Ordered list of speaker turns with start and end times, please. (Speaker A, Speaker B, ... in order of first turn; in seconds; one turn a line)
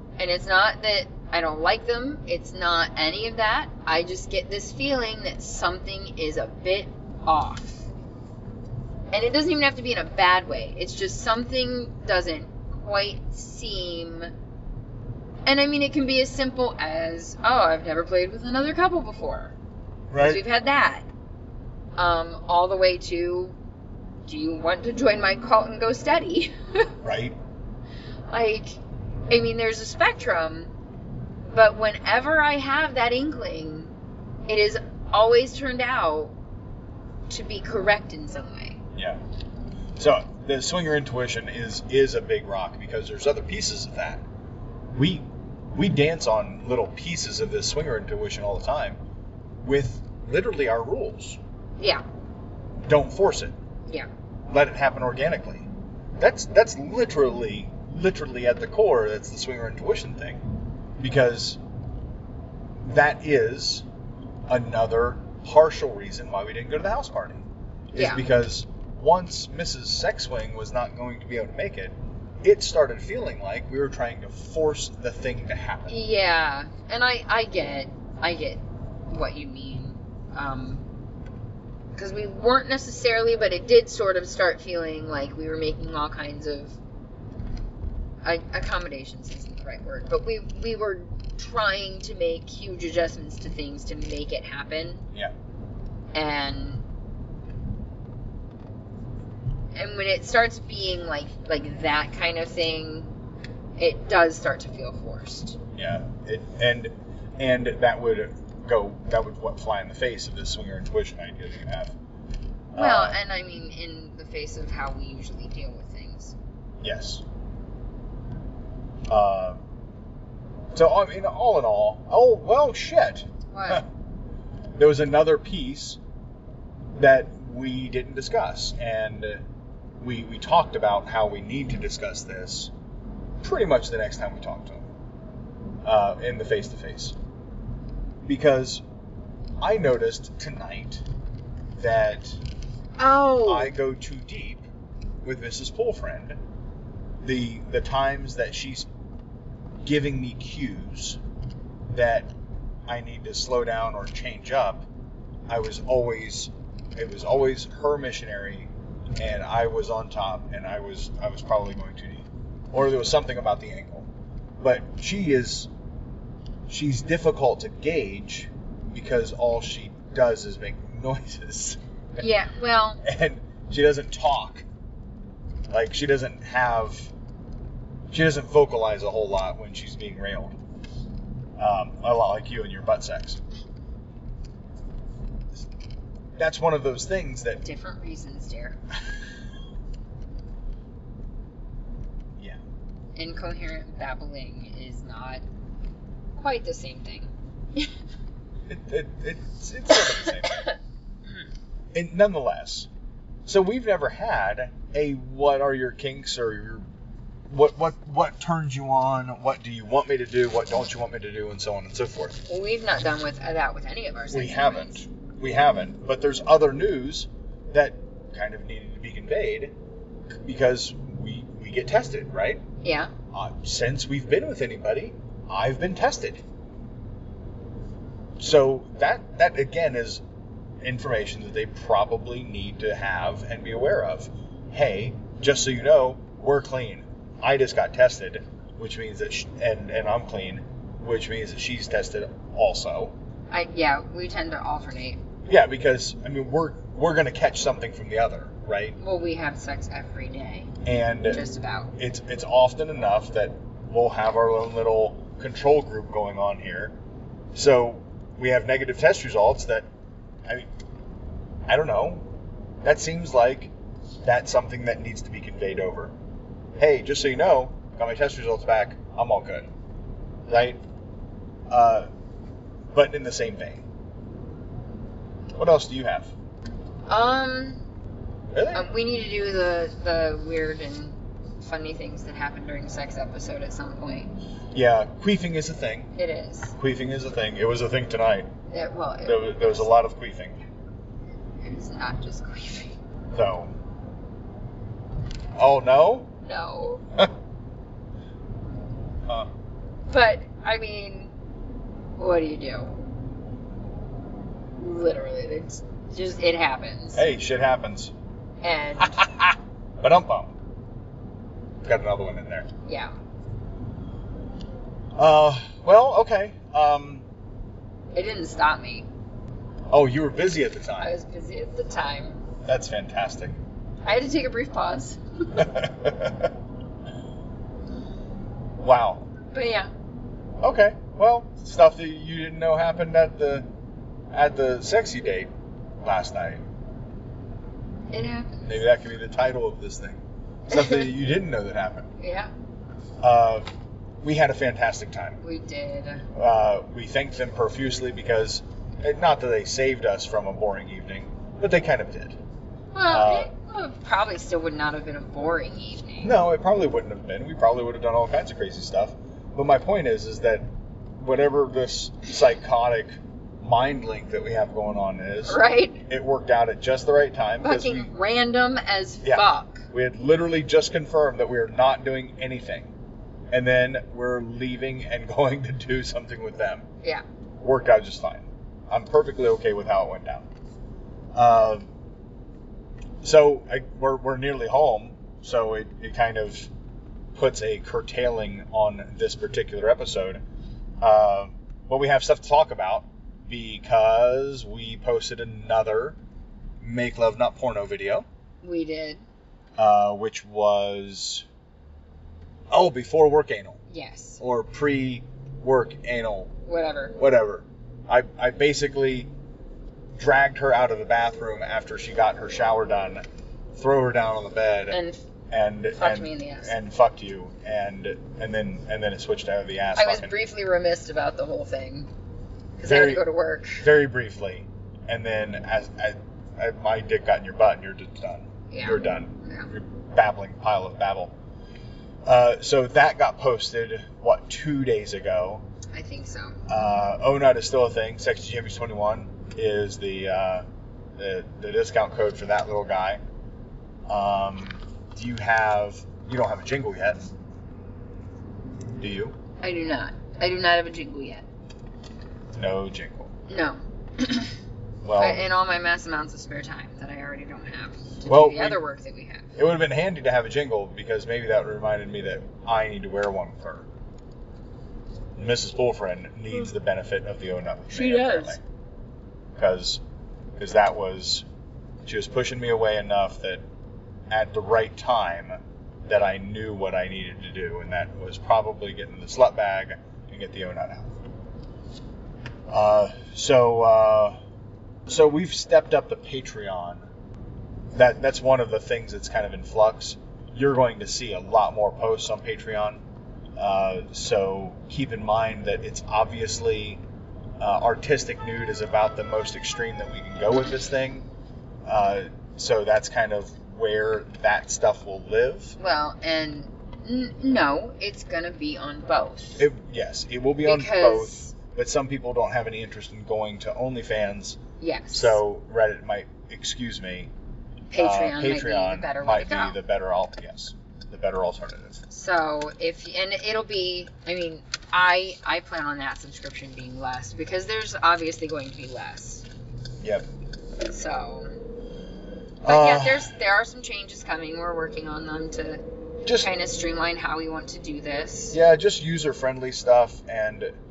Speaker A: 0.2-7.9
Speaker A: 9.1-14.3
Speaker A: 15.4-19.5
Speaker B: 20.1-20.4
Speaker A: 20.2-21.1
Speaker A: 21.9-23.5
Speaker A: 24.2-26.9
Speaker B: 27.0-27.4
Speaker A: 28.3-30.7
Speaker A: 31.5-33.9
Speaker A: 34.5-36.3
Speaker A: 37.3-38.8
Speaker B: 38.9-39.2
Speaker B: 40.0-44.2
Speaker B: 44.9-49.0
Speaker B: 49.6-51.4
Speaker B: 52.9-53.5
Speaker B: 54.5-60.5
Speaker B: 61.0-61.6
Speaker B: 62.8-63.9
Speaker B: 64.5-76.0
Speaker A: 67.9-68.2
Speaker A: 75.9-80.8
Speaker A: 82.0-86.8
Speaker A: 88.2-95.0
Speaker A: 96.1-96.8
Speaker A: 99.7-103.1
Speaker A: 103.8-105.6
Speaker B: 105.7-112.0
Speaker B: 112.7-113.2
Speaker A: 112.8-116.3
Speaker B: 116.8-117.2
Speaker B: 119.1-119.6
Speaker B: 120.7-123.8
Speaker A: 123.5-123.8
Speaker B: 124.8-126.0
Speaker B: 127.0-129.4
Speaker B: 130.0-132.7
Speaker B: 133.4-134.9
Speaker B: 135.8-137.1
Speaker B: 138.2-138.8
Speaker B: 139.6-141.0
Speaker B: 141.8-142.4
Speaker A: 143.0-143.8
Speaker B: 143.4-144.6
Speaker B: 145.2-146.4
Speaker B: 147.2-148.9
Speaker B: 149.8-151.2
Speaker B: 151.9-152.3
Speaker B: 152.9-154.9
Speaker B: 155.5-164.1
Speaker B: 164.6-165.7
Speaker B: 166.7-172.2
Speaker A: 172.2-173.0
Speaker B: 173.0-174.6
Speaker B: 175.7-177.1
Speaker B: 178.1-180.6
Speaker B: 181.6-183.4
Speaker B: 186.4-187.6
Speaker A: 187.6-188.8
Speaker A: 193.1-195.4
Speaker A: 196.3-197.9
Speaker B: 198.7-200.7
Speaker A: 200.4-200.8
Speaker B: 201.9-202.9
Speaker B: 203.4-206.8
Speaker B: 207.5-212.4
Speaker A: 212.5-215.0
Speaker B: 214.3-219.7
Speaker B: 220.3-222.6
Speaker A: 222.8-223.1
Speaker B: 223.3-226.4
Speaker B: 228.4-230.2
Speaker B: 230.8-243.1
Speaker A: 243.5-245.2
Speaker B: 245.5-248.9
Speaker A: 249.0-250.7
Speaker B: 250.8-251.4
Speaker A: 251.2-251.9
Speaker B: 251.9-256.9
Speaker B: 257.5-259.9
Speaker B: 261.7-262.3
Speaker B: 262.8-263.7
Speaker B: 264.2-266.1
Speaker B: 266.8-269.7
Speaker B: 270.5-270.8
Speaker B: 271.7-272.1
Speaker B: 272.9-273.8
Speaker B: 275.5-276.3
Speaker A: 277.1-277.8
Speaker B: 278.5-278.9
Speaker A: 278.7-284.3
Speaker B: 284.7-286.1
Speaker A: 286.1-286.8
Speaker B: 286.8-288.5
Speaker A: 288.7-289.9
Speaker B: 289.2-290.6
Speaker A: 291.6-292.9
Speaker B: 293.3-293.7
Speaker B: 295.6-296.3
Speaker A: 296.4-297.0
Speaker A: 300.1-301.3
Speaker A: 302.2-303.0
Speaker A: 304.8-307.2
Speaker B: 307.1-308.1
Speaker A: 308.6-309.2
Speaker B: 309.0-310.5
Speaker B: 311.8-312.7
Speaker A: 312.8-313.1
Speaker B: 315.2-317.2
Speaker A: 318.1-319.1
Speaker B: 319.9-321.1
Speaker A: 321.0-322.4
Speaker B: 322.6-323.5
Speaker A: 324.0-325.7
Speaker B: 325.5-326.5
Speaker B: 328.8-329.2
Speaker A: 329.5-329.9
Speaker B: 330.6-333.7
Speaker B: 334.3-335.5
Speaker B: 336.0-336.6
Speaker A: 338.1-338.8
Speaker B: 338.6-342.1
Speaker A: 340.7-341.1
Speaker A: 342.2-342.5
Speaker B: 343.2-343.7
Speaker B: 344.2-345.4
Speaker A: 345.4-346.3
Speaker B: 346.3-352.4
Speaker A: 352.9-356.3
Speaker B: 353.1-353.5
Speaker B: 356.2-368.1
Speaker A: 365.4-366.0
Speaker A: 367.6-369.9
Speaker B: 369.2-372.9
Speaker B: 373.5-376.9
Speaker B: 377.6-380.5
Speaker B: 381.3-381.9
Speaker B: 383.2-386.7
Speaker B: 387.3-390.4
Speaker B: 391.0-396.2
Speaker B: 396.8-398.2
Speaker A: 398.6-399.2
Speaker B: 399.8-401.4
Speaker B: 402.7-403.8
Speaker A: 403.9-404.4
Speaker B: 404.4-406.5
Speaker A: 406.7-407.1
Speaker B: 407.2-409.3
Speaker B: 410.2-413.2
Speaker B: 413.7-415.0
Speaker A: 414.9-415.2
Speaker B: 415.5-420.3
Speaker A: 415.9-416.7
Speaker A: 419.9-422.1
Speaker A: 422.8-423.9
Speaker B: 422.8-423.2
Speaker B: 423.8-431.3
Speaker A: 428.7-429.7
Speaker B: 432.2-435.6
Speaker A: 435.9-436.6
Speaker B: 436.7-440.6
Speaker B: 441.2-443.2
Speaker B: 444.1-447.3
Speaker B: 449.0-449.4
Speaker A: 449.6-451.4
Speaker B: 452.5-453.3
Speaker A: 453.5-454.5
Speaker B: 455.0-455.4
Speaker A: 455.2-459.5
Speaker B: 458.2-458.8
Speaker B: 459.6-463.9
Speaker B: 465.4-468.6
Speaker A: 467.9-468.6
Speaker B: 469.6-470.0
Speaker B: 470.6-471.4
Speaker B: 472.0-473.6
Speaker B: 474.3-481.2
Speaker B: 482.7-484.4
Speaker B: 485.1-487.1
Speaker B: 487.9-493.0
Speaker B: 493.6-497.0
Speaker B: 497.6-501.3
Speaker B: 501.9-505.8
Speaker A: 505.8-509.6
Speaker B: 509.6-514.6
Speaker A: 510.6-511.5
Speaker A: 514.8-515.4
Speaker B: 515.1-517.3
Speaker A: 517.9-519.8
Speaker B: 517.9-522.0
Speaker A: 522.1-529.5
Speaker B: 530.0-530.3
Speaker A: 530.8-531.5
Speaker B: 532.6-533.3
Speaker A: 532.6-538.6
Speaker B: 536.2-536.5
Speaker B: 538.5-540.7